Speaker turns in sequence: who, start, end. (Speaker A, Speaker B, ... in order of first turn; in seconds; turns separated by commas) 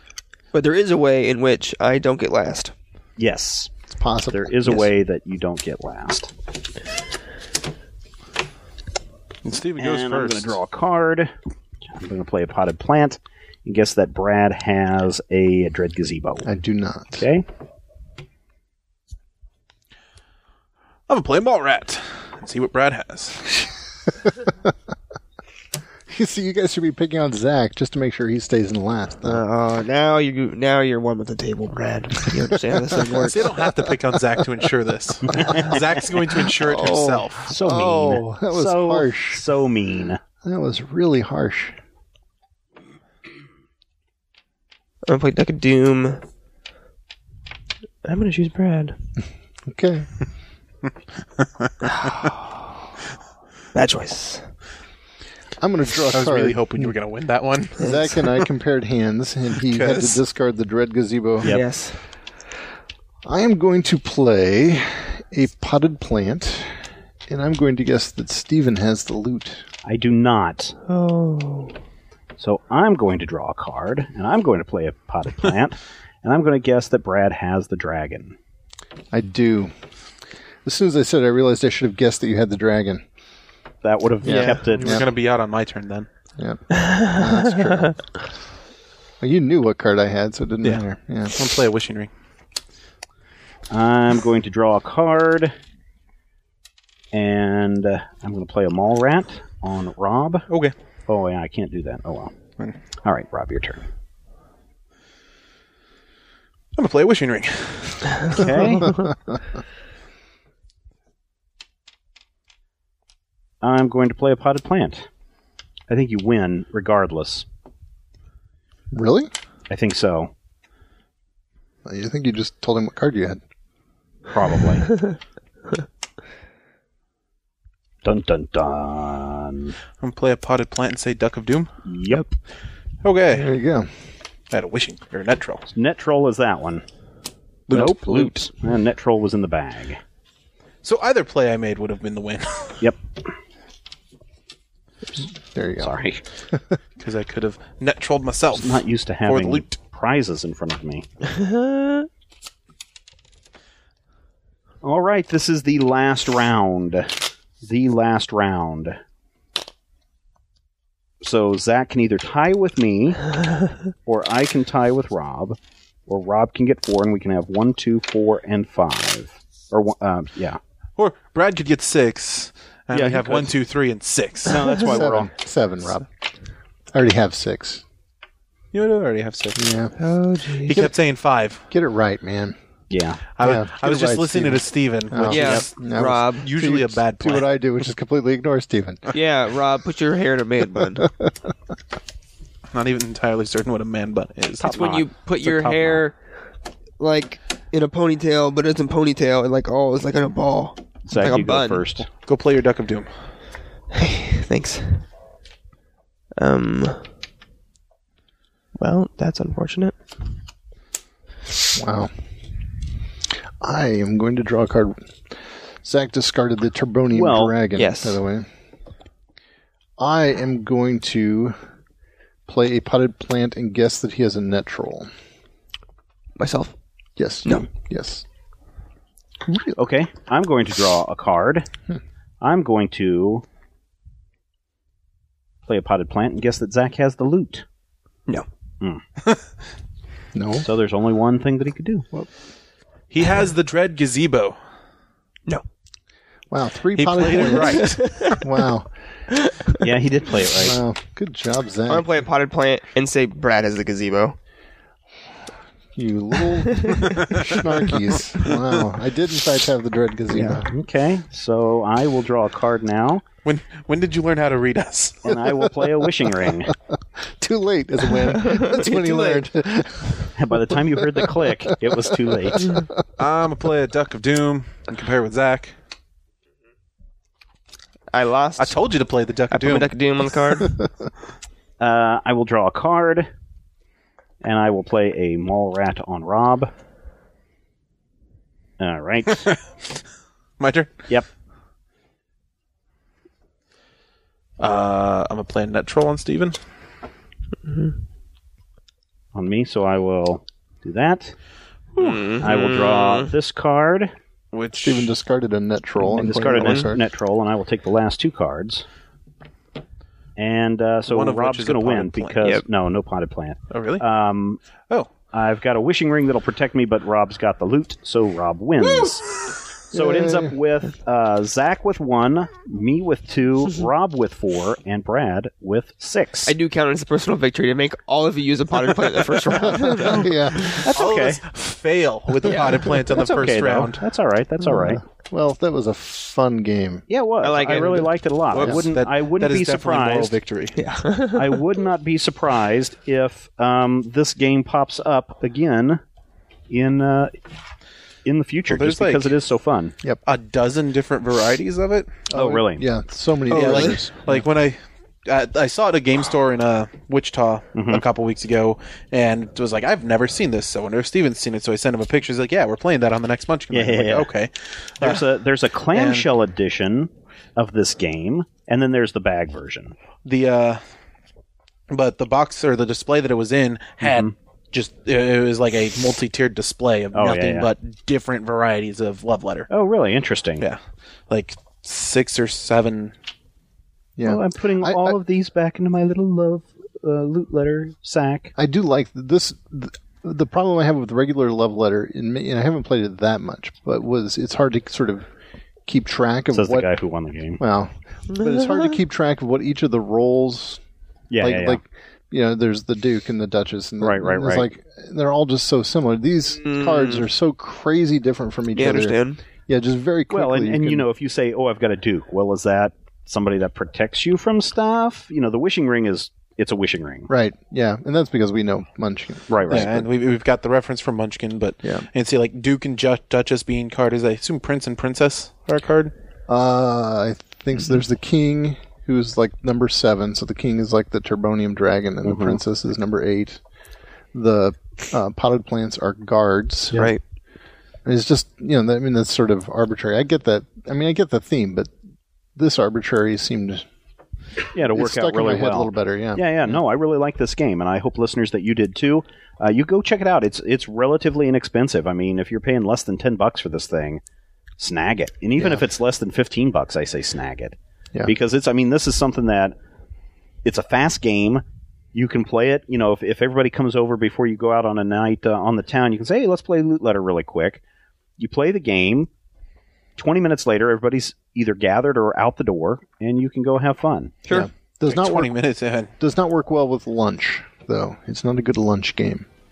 Speaker A: 0.5-2.7, Speaker B: 3.2-3.7, Speaker C: 4.0-4.8, Speaker B: 4.3-6.3, Speaker D: 9.4-10.6, Speaker B: 9.8-11.3, Speaker B: 11.9-16.5, Speaker C: 16.4-17.2, Speaker B: 17.2-17.4, Speaker D: 21.1-23.4, Speaker C: 26.1-29.4, Speaker A: 29.2-33.4, Speaker C: 32.9-34.0, Speaker D: 33.2-37.5, Speaker B: 35.3-35.8, Speaker A: 36.6-38.2, Speaker B: 37.5-40.2, Speaker C: 37.9-39.4, Speaker C: 40.4-41.8, Speaker A: 45.1-46.2, Speaker A: 48.0-49.0, Speaker C: 49.7-50.1, Speaker A: 51.9-52.5, Speaker A: 53.7-54.5, Speaker C: 55.6-56.9, Speaker D: 56.1-57.8, Speaker C: 57.8-61.5, Speaker D: 59.7-60.2, Speaker A: 61.4-62.0, Speaker C: 63.2-66.7, Speaker C: 67.3-69.7, Speaker B: 69.8-70.8, Speaker A: 70.9-71.8, Speaker B: 72.4-78.3, Speaker C: 79.1-79.7, Speaker C: 80.6-83.0, Speaker B: 83.8-85.0, Speaker C: 84.2-85.1, Speaker A: 84.3-84.6, Speaker D: 84.7-86.1, Speaker C: 86.4-88.1, Speaker A: 86.8-87.1, Speaker C: 89.2-91.3, Speaker D: 90.6-92.1, Speaker B: 93.7-95.5, Speaker B: 97.1-100.5, Speaker B: 101.1-102.3, Speaker B: 103.0-103.8, Speaker D: 106.8-108.4, Speaker B: 108.3-109.1, Speaker C: 109.0-109.3, Speaker B: 113.6-115.1, Speaker B: 115.9-117.5, Speaker C: 118.9-119.3, Speaker B: 119.7-120.3, Speaker C: 121.8-123.4, Speaker B: 124.3-125.0, Speaker B: 128.0-129.8, Speaker D: 130.0-131.7, Speaker B: 131.8-132.2, Speaker D: 133.0-133.5, Speaker C: 133.3-133.9, Speaker D: 134.5-135.7, Speaker B: 135.7-136.8, Speaker D: 137.7-138.3, Speaker B: 137.7-140.0, Speaker D: 140.8-142.8, Speaker B: 142.8-143.3, Speaker C: 145.5-146.0, Speaker B: 145.8-146.2, Speaker C: 146.5-146.8, Speaker D: 147.0-149.7, Speaker B: 148.5-151.0, Speaker A: 151.3-152.1, Speaker B: 154.8-159.0, Speaker B: 161.2-163.3, Speaker B: 164.1-170.6, Speaker D: 171.0-174.7, Speaker B: 172.9-173.6, Speaker B: 174.4-175.3, Speaker C: 174.8-176.1, Speaker C: 176.9-177.8, Speaker D: 178.7-179.7, Speaker C: 179.6-179.9, Speaker A: 180.0-180.8, Speaker D: 180.6-181.6, Speaker C: 181.7-182.6, Speaker B: 182.9-183.2, Speaker D: 183.4-185.7, Speaker C: 183.4-189.0, Speaker A: 185.3-186.5, Speaker D: 186.4-187.6, Speaker A: 189.1-191.1, Speaker C: 191.0-191.3, Speaker D: 192.7-194.8, Speaker A: 194.6-196.2, Speaker B: 194.6-196.0, Speaker A: 197.0-201.8, Speaker B: 201.0-202.1, Speaker D: 202.2-203.3, Speaker A: 204.0-205.0, Speaker A: 206.4-207.0, Speaker A: 208.8-209.9, Speaker C: 211.7-212.1, Speaker C: 213.6-215.2, Speaker C: 215.8-218.5, Speaker B: 217.1-217.5, Speaker A: 217.7-218.2, Speaker C: 220.0-221.6, Speaker C: 222.5-225.1, Speaker A: 226.4-226.7, Speaker C: 227.2-228.2, Speaker C: 229.4-229.7, Speaker B: 229.8-231.7, Speaker B: 232.4-233.4, Speaker B: 235.7-237.6, Speaker C: 240.3-240.7, Speaker B: 240.6-242.1, Speaker D: 243.1-244.6, Speaker C: 246.5-248.9, Speaker D: 246.9-248.4, Speaker A: 247.8-248.3, Speaker A: 249.5-249.8, Speaker B: 249.8-250.8, Speaker C: 250.6-252.2, Speaker A: 251.9-254.4, Speaker C: 255.9-260.7, Speaker A: 256.7-257.1, Speaker D: 257.1-257.6, Speaker A: 260.3-260.6, Speaker B: 260.7-263.2, Speaker D: 263.4-265.2, Speaker B: 265.2-266.7, Speaker C: 265.3-266.1, Speaker C: 267.4-272.8, Speaker A: 268.3-269.5, Speaker B: 270.3-272.7, Speaker D: 273.2-275.7, Speaker A: 278.1-278.8, Speaker D: 278.6-279.9, Speaker A: 279.5-280.8, Speaker B: 281.8-283.3, Speaker B: 284.4-286.7, Speaker B: 288.8-289.5, Speaker D: 290.6-291.1, Speaker D: 294.6-296.6, Speaker A: 297.6-297.9, Speaker B: 299.3-301.3, Speaker D: 302.0-302.3, Speaker A: 302.0-303.3, Speaker B: 302.4-304.1, Speaker D: 304.5-305.1, Speaker C: 304.8-307.0, Speaker B: 306.1-308.8, Speaker A: 306.4-306.9, Speaker B: 310.4-314.6, Speaker D: 311.1-312.4, Speaker D: 313.7-314.0, Speaker B: 315.3-319.4, Speaker B: 319.9-326.5, Speaker C: 319.9-320.6, Speaker A: 326.4-330.4, Speaker C: 329.9-330.8, Speaker D: 330.6-334.0, Speaker B: 330.8-331.4, Speaker A: 332.5-332.8, Speaker B: 333.1-335.0, Speaker C: 334.6-337.1, Speaker B: 337.1-340.4, Speaker A: 337.4-338.1, Speaker D: 337.7-340.8, Speaker C: 338.6-338.8, Speaker A: 340.8-341.5, Speaker B: 341.3-346.0, Speaker B: 346.7-347.3, Speaker B: 348.2-349.9, Speaker D: 348.7-349.3, Speaker D: 350.2-352.2, Speaker C: 352.3-354.3, Speaker B: 352.3-352.8, Speaker A: 353.5-354.1, Speaker D: 353.5-365.2, Speaker B: 357.8-358.0, Speaker B: 363.7-364.3, Speaker B: 365.0-369.9, Speaker D: 365.9-366.3, Speaker D: 370.2-370.8, Speaker D: 371.9-379.7, Speaker B: 374.0-374.3, Speaker B: 377.1-377.7, Speaker B: 379.7-380.6, Speaker D: 381.3-383.1, Speaker C: 384.2-385.2, Speaker B: 384.2-388.5, Speaker C: 388.6-395.3, Speaker C: 395.9-396.9, Speaker B: 396.5-397.6, Speaker C: 397.6-400.8, Speaker A: 398.3-399.0, Speaker B: 401.3-401.8, Speaker C: 401.4-411.1, Speaker B: 404.0-404.7, Speaker A: 406.6-407.2, Speaker A: 408.7-409.4, Speaker B: 410.3-417.3, Speaker C: 417.3-420.1, Speaker B: 419.5-419.9, Speaker D: 419.7-426.1, Speaker C: 426.5-433.6, Speaker B: 432.2-432.6, Speaker C: 434.3-437.1, Speaker A: 436.9-437.2, Speaker C: 438.0-441.9, Speaker C: 442.6-443.9, Speaker B: 444.7-454.2, Speaker C: 444.9-446.8, Speaker B: 454.8-459.7, Speaker B: 460.6-461.6, Speaker B: 462.1-467.8, Speaker B: 468.4-469.3, Speaker B: 470.2-474.3, Speaker C: 474.5-475.5, Speaker D: 475.1-476.1, Speaker C: 476.2-479.5